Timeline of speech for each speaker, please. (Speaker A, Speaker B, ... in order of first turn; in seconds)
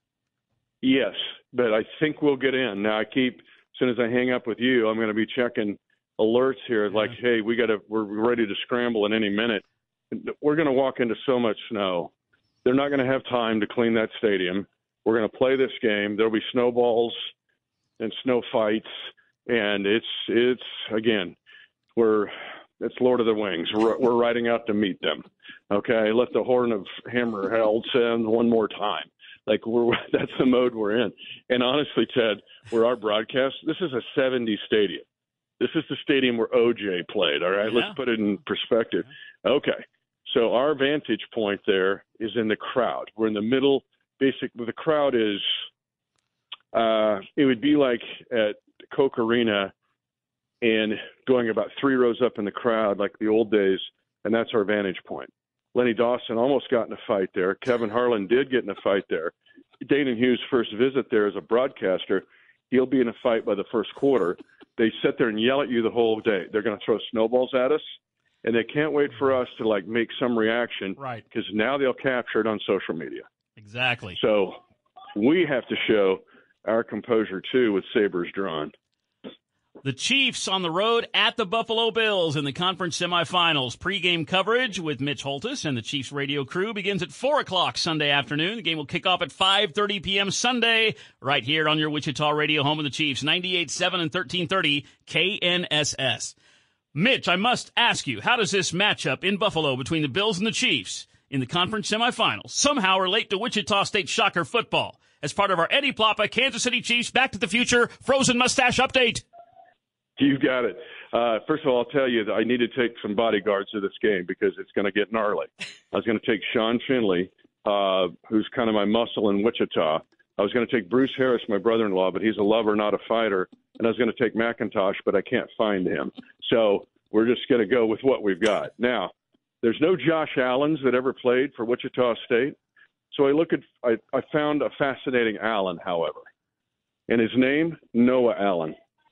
Speaker A: 0.8-12.1, 12.6-17.2, 18.0-18.9, 19.5-21.3, 21.9-35.0, 35.6-45.5, 46.7-49.7, 50.6-59.3, 59.8-67.8, 68.4-73.2, 74.1-74.6, 75.2-78.7, 110.2-132.6, 133.1-136.2, 137.1-138.7
Speaker B: 37.6-38.0, 71.0-71.2, 73.6-74.2, 79.8-96.3, 96.9-109.2